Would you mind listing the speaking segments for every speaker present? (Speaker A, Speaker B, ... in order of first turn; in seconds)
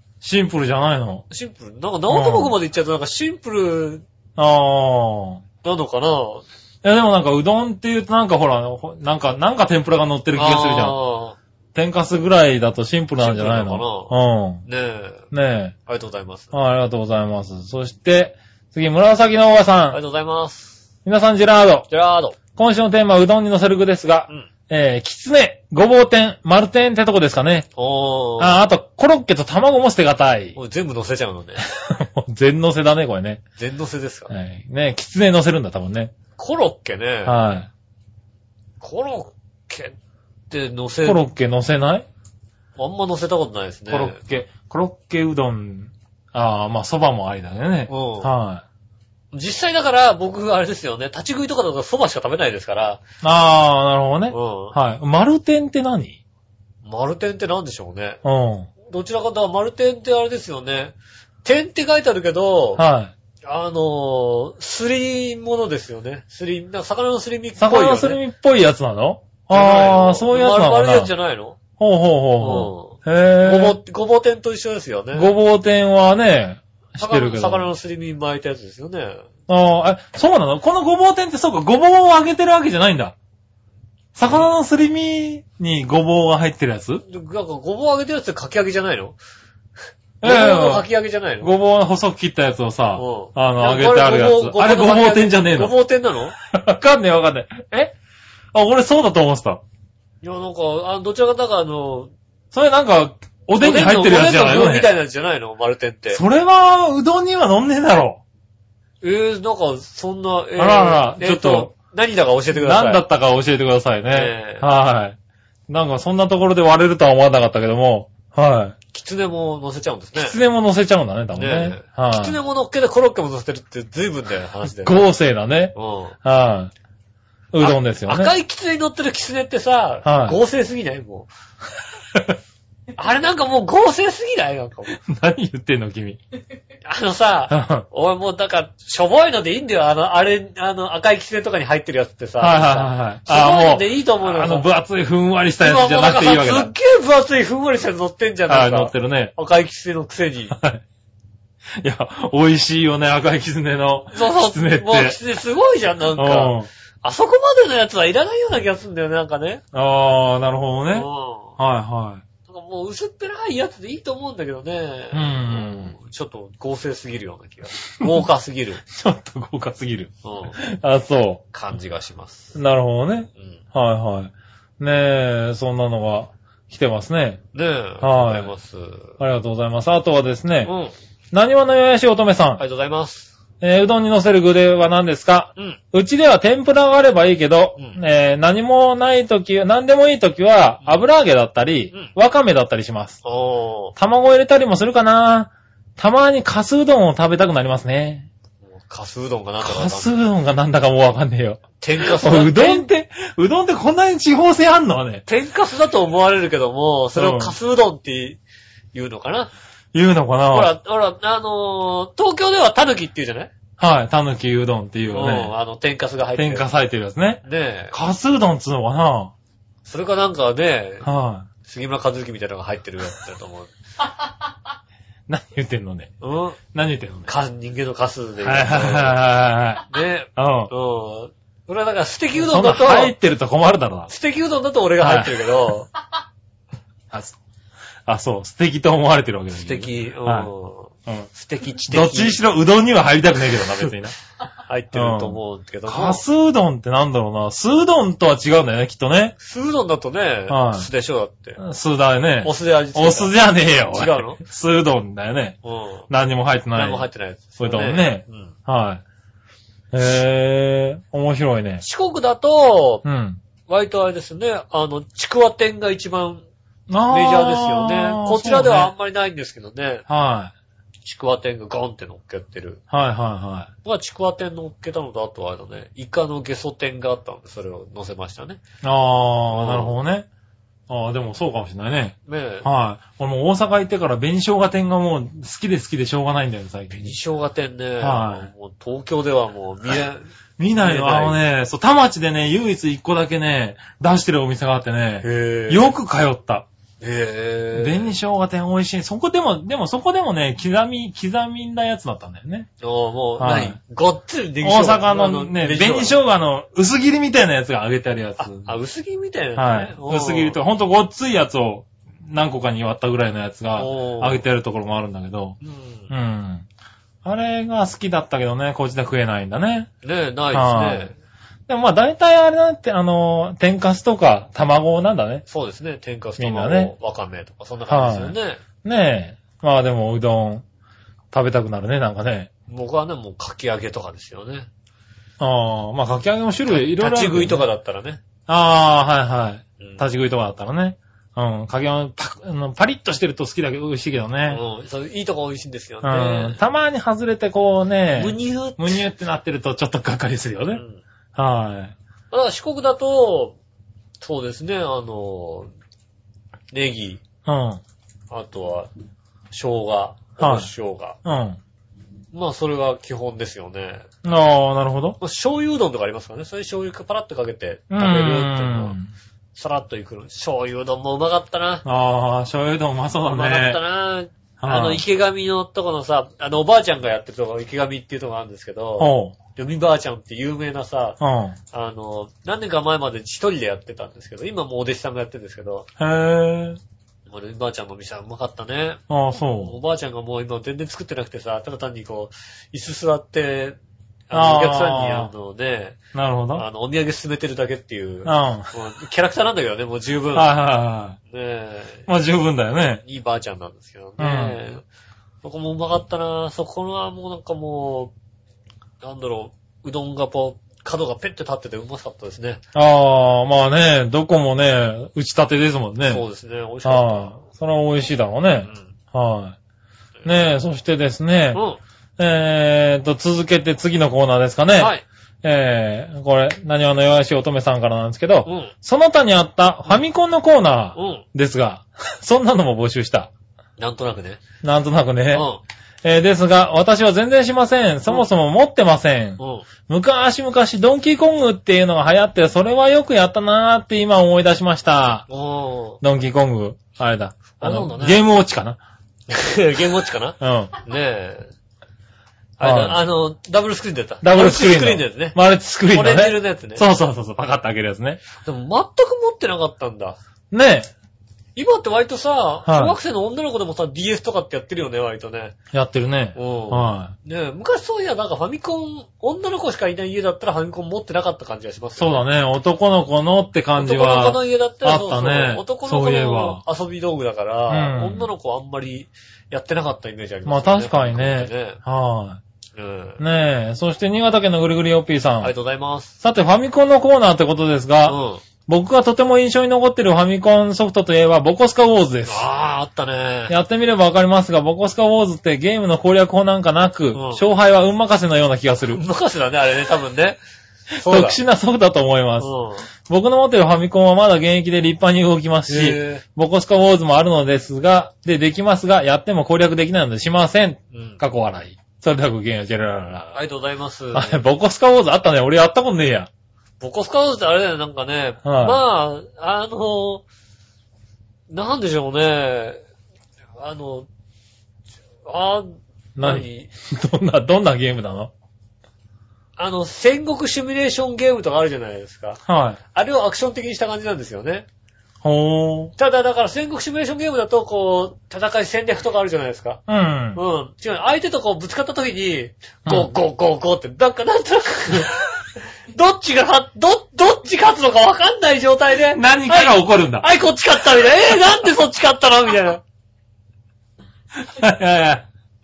Speaker A: 0.2-1.2, 2.1-2.5, 4.4-5.4, 6.8-11.0, 11.7-14.6, 15.3-15.7, 16.5-20.0, 21.0-21.9, 22.6-27.7, 28.4-30.6, 31.7-33.4, 34.3-36.1, 37.2-37.7, 41.0-42.1, 43.9-48.6, 53.2-56.2, 58.2-58.7, 62.8-63.1, 67.6-71.1, 71.8-73.8, 75.1-77.7, 79.5-83.1, 84.1-87.0, 90.2-90.9, 91.4-95.8, 96.5-97.9, 98.5-99.6, 102.5-104.9, 106.1-108.2, 110.6-111.7, 112.5-115.2, 115.7-118.8, 120.1-122.4, 124.7-126.7, 127.5-128.3, 130.0-130.4, 134.9-136.2, 137.5-137.8, 142.4-146.7, 148.5-149.3, 150.5-150.8, 151.8-155.2, 156.2-156.7, 159.7-161.1, 161.6-162.2, 165.1-165.9, 168.8-171.4, 172.5-177.4, 178.0-178.5, 179.2-180.7, 181.3-182.6, 183.6-193.2, 193.9-198.3, 199.6-205.2, 207.1-207.5, 209.9-210.7, 213.8-215.5, 216.4-219.3, 221.0-221.5, 225.3-226.1, 226.7-227.3, 228.4-230.7, 232.3-234.1, 235.0-235.6, 237.1-237.4, 238.1-240.5, 241.9-244.2, 244.9-249.3, 250.5-250.9, 251.6-255.6, 256.1-257.1, 257.6-259.0, 259.9-261.8, 263.0-263.4, 266.9-268.9, 270.1-270.5, 272.9-273.7, 278.8-280.3, 280.9-287.2, 288.0-288.5, 290.6-296.6, 297.7-302.7, 303.4-303.8, 304.6-308.7, 309.6-315.6, 316.1-316.6, 317.2-319.9, 320.5-321.1, 321.7-325.4, 326.4-326.9, 327.9-330.6, 331.3-332.5, 335.4-337.6, 338.5-344.6, 346.0-350.8, 351.3-351.9, 357.4-357.8, 360.4-360.7, 361.2-361.6, 364.2-365.2, 367.9-369.1, 371.8-373.8, 374.6-375.0, 379.0-379.4, 381.2-381.6, 386.0-386.8, 389.1-389.8, 394.3-395.3, 396.1-396.6, 398.2-398.7, 400.3-401.2, 402.1-403.0, 404.2-404.6, 412.7-416.2, 416.8-419.6, 420.2-421.6, 422.2-433.3, 434.6-435.4, 436.0-445.2, 446.0-448.8, 450.4-450.7, 452.6-453.0, 454.2-458.2, 460.5-460.9, 462.6-462.9, 465.7-467.1, 472.0-476.6, 477.7-478.3, 480.4-482.4, 483.2-485.5, 486.2-492.4, 493.5-499.0, 501.0-502.5, 503.1-513.4, 514.1-516.3, 518.4-518.8, 526.2-528.3, 532.5-532.8, 535.2-535.9, 539.9-540.4, 549.1-550.3, 554.4-555.2
Speaker B: 1.3-4.0, 5.6-6.4, 10.3-11.4, 13.2-14.1, 14.7-15.3, 15.8-16.5, 19.9-20.8, 21.9-22.4, 27.8-28.6, 30.6-31.6, 33.6-34.3, 36.4-37.4, 38.8-39.9, 40.5-41.2, 42.8-44.2, 47.9-48.3, 49.3-53.0, 54.3-54.8, 56.8-58.2, 58.8-62.8, 63.4-68.2, 69.5-71.6, 72.4-75.3, 77.0-79.2, 87.0-89.2, 90.2-91.5, 93.0-96.3, 100.2-102.1, 103.6-106.2, 109.0-113.0, 114.1-114.7, 118.9-120.4, 121.3-125.0, 125.7-126.2, 127.6-131.3, 132.9-134.9, 136.8-144.7, 145.6-150.6, 154.1-159.6, 160.9-161.6, 162.5-168.8, 170.2-170.6, 171.5-172.6, 177.5-179.1, 180.6-180.9, 182.6-183.3, 193.2-193.9, 198.7-200.1, 201.8-202.9, 205.2-208.4, 208.9-209.5, 210.5-213.5, 215.1-216.7, 217.4-217.9, 219.8-221.1, 221.6-223.7, 226.2-226.6, 227.3-229.2, 229.9-233.1, 234.1-235.9, 239.5-242.4, 244.7-246.2, 249.4-251.6, 252.4-254.4, 255.6-256.1, 256.7-258.5, 261.8-263.0, 263.7-266.4, 267.1-270.0, 271.0-272.8, 273.8-278.6, 279.5-280.0, 282.2-282.7, 286.9-290.3, 290.8-291.4, 295.2-295.9, 297.0-298.1, 302.8-306.2, 308.4-310.6, 313.8-314.4, 315.6-316.1, 320.0-321.1, 325.5-328.6, 332.7-334.7, 336.7-338.2, 339.8-340.0, 344.5-346.6, 348.1-349.0, 350.7-351.0, 352.3-353.6, 354.2-355.7, 356.7-357.2, 358.3-358.9, 359.5-361.2, 362.3-364.1, 365.2-369.0, 369.5-371.8, 373.3-381.2, 381.7-385.9, 387.3-389.0, 389.5-393.8, 394.3-396.0, 396.5-400.5, 401.3-402.1, 403.0-404.8, 405.4-408.1, 409.0-412.6, 416.1-417.4, 418.6-418.9, 421.5-421.8, 424.8-425.0, 428.4-428.7, 430.9-431.2, 433.8-434.4, 435.3-435.6, 439.4-439.7, 445.3-446.0, 447.6-448.2, 449.3-451.5, 452.6-455.4, 455.9-456.8, 458.4-460.2, 461.6-465.5, 466.3-472.2, 473.8-481.8, 482.8-483.2, 485.4-486.1, 488.1-488.4, 492.3-493.6, 497.1-497.4, 498.9-500.4, 501.0-501.4, 502.4-502.9, 505.7-506.2, 510.9-511.2, 513.3-514.4, 516.8-520.2, 521.5-522.8, 523.6-524.1, 525.3-526.7, 529.6-532.4, 532.9-534.6, 536.0-539.8, 540.3-545.1, 545.9-552.8